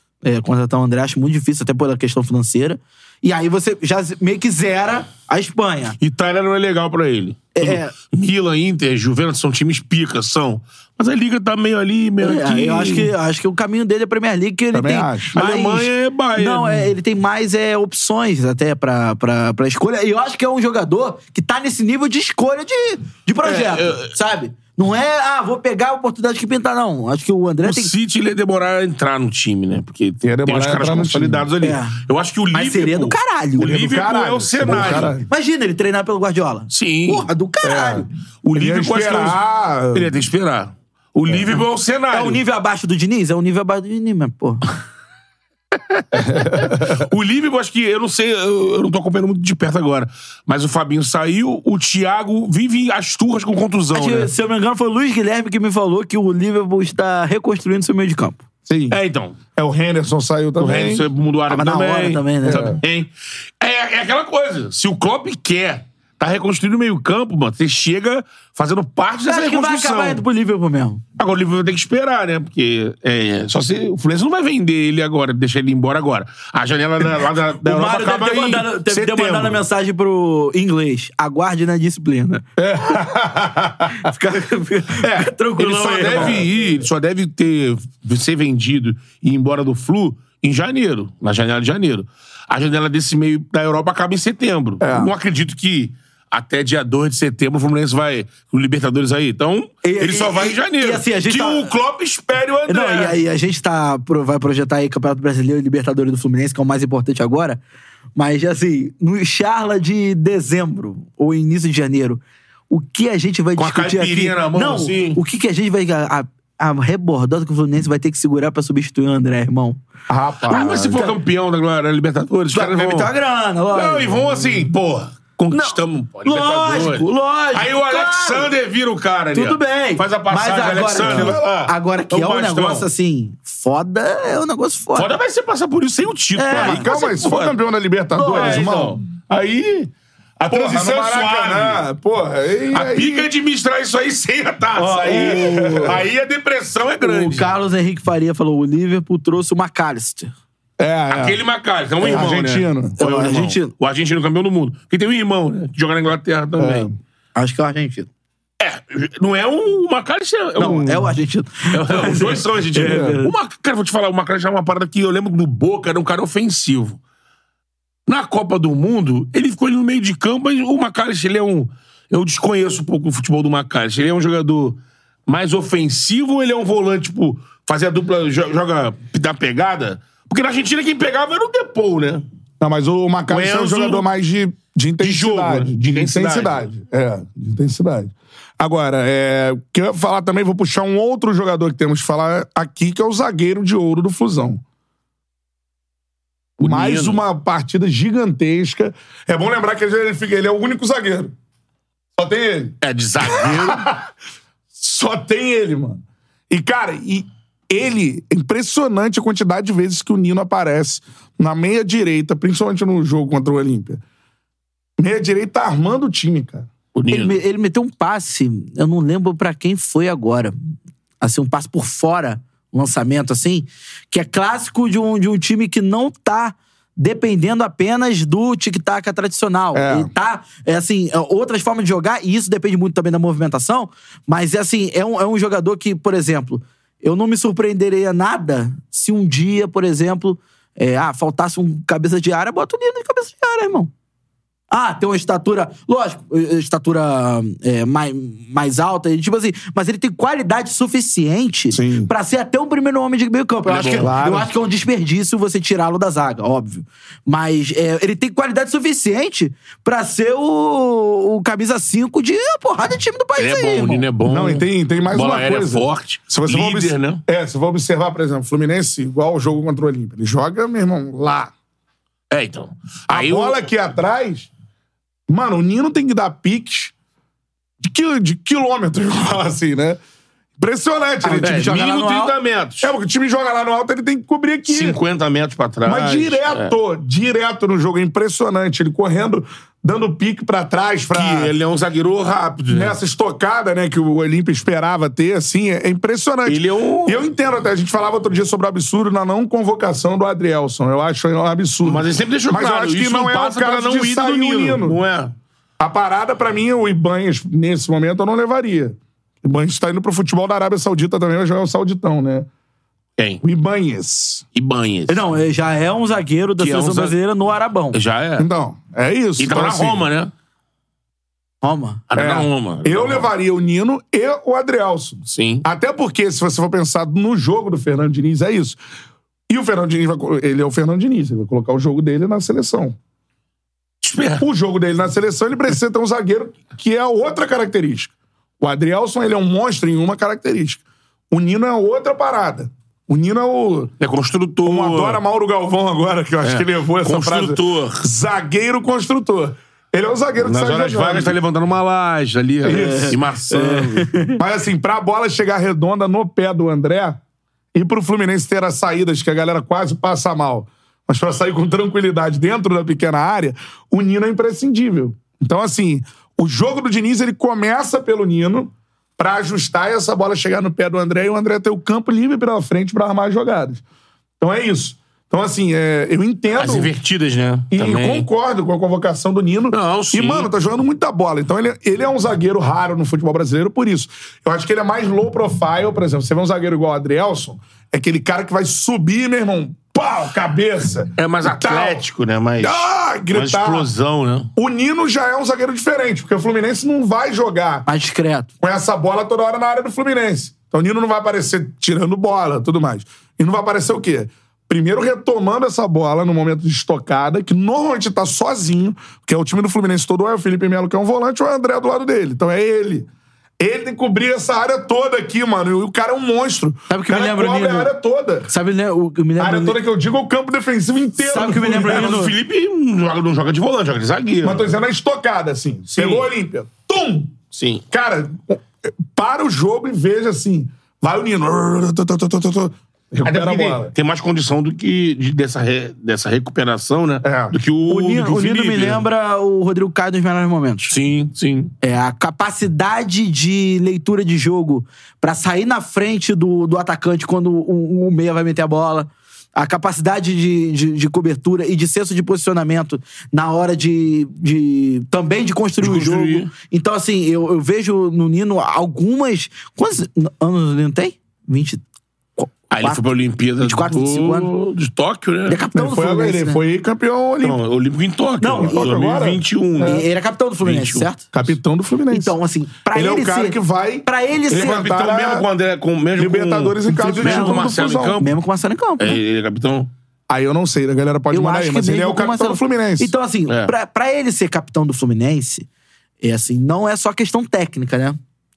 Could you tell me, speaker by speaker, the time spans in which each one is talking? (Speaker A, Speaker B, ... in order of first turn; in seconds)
Speaker A: 0.2-6.0, 7.5-7.9, 12.2-27.9, 31.6-32.0, 32.5-33.8, 34.6-38.1, 42.1-44.7, 53.9-58.4, 61.5-62.8, 69.3-71.0, 77.6-82.5, 84.0-86.5, 99.8-101.7, 102.7-107.6, 108.2-119.8, 120.5-121.2, 122.5-124.3, 125.5-128.5, 129.3-135.1, 136.4-136.9, 138.1-138.9, 144.8-146.0, 147.0-150.3, 152.0-152.3, 153.0-153.7, 157.3-158.1, 160.6-163.3, 217.1-220.6, 221.2-243.9, 244.7-264.1, 281.2-282.4, 315.1-318.0, 321.6-322.0, 352.6-354.4, 397.9-398.5, 416.9-417.9, 418.5-419.8, 421.2-422.4, 437.9-440.9, 441.8-461.8, 462.4-463.1, 463.6-464.5, 465.5-466.6, 468.4-468.9, 469.8-471.2, 472.1-474.9, 476.9-479.2, 481.3-485.7, 486.2-488.2
Speaker B: 6.0-13.1, 15.3-16.9, 23.4-24.1, 27.6-35.1, 36.7-37.3, 38.4-39.4, 39.9-42.4, 45.9-54.3, 58.9-59.4, 60.6-63.1, 63.6-70.2, 71.2-79.6, 85.0-103.2, 113.6-115.2, 120.5-123.1, 123.7-132.9, 134.9-137.6, 138.2-141.8, 142.7-147.5, 151.1-156.9, 158.6-161.2, 161.7-167.0, 168.1-182.2, 183.3-184.1, 185.0-186.7, 196.6-197.2, 202.8-203.9, 216.9-217.4, 253.7-254.1, 263.4-267.2, 272.3-273.7, 281.4-282.9, 284.7-286.8, 291.1-293.0, 296.5-297.3, 301.8-305.3, 313.2-313.4, 314.6-315.2, 316.6-317.2, 317.9-318.5, 319.4-320.3, 322.1-323.3, 325.3-325.6, 334.0-334.4, 344.0-345.2, 346.4-348.1, 350.4-354.1, 376.6-378.3, 379.7-380.5, 391.2-394.5, 421.6-424.7, 425.9-426.3, 427.5-427.8, 433.2-439.1, 440.9-441.7, 455.8-456.5, 462.7-465.6, 467.4-470.1, 470.6-471.1, 474.5-478.4, 479.0-479.9, 483.5-483.7
Speaker C: 14.7-15.4, 30.2-31.5, 33.6-35.3, 37.6-40.1, 46.2-47.0, 58.7-59.0, 59.6-61.0, 62.5-62.8, 82.6-84.1, 85.9-86.5, 94.8-95.1, 120.1-121.0, 131.0-131.5, 136.5-139.0, 140.5-143.3, 145.1-146.0, 150.8-151.4, 152.0-153.0, 156.6-157.0, 162.8-163.2, 182.6-194.6, 196.6-201.3, 202.2-204.1, 204.8-214.0, 215.0-216.7, 229.7-230.1, 251.7-252.1, 254.0-254.5, 264.2-271.5, 273.1-274.5, 275.3-276.9, 277.8-280.0, 280.6-281.8, 282.8-285.0, 285.9-291.5, 292.7-305.0, 305.8-312.5, 313.4-314.4, 318.4-320.1, 322.1-328.8, 329.5-333.0, 334.4-343.9, 344.6-351.4, 352.6-353.2, 354.4-357.2, 357.7-373.8, 374.4-376.9, 377.7-392.0, 392.6-393.9, 394.6-397.9, 398.6-413.1, 413.6-418.5, 419.4-422.2, 424.4-427.4, 427.9-433.9, 437.2-437.6, 465.7-467.6, 468.6-470.1, 471.3-472.3, 472.9-475.5, 476.2-478.3, 480.3-483.1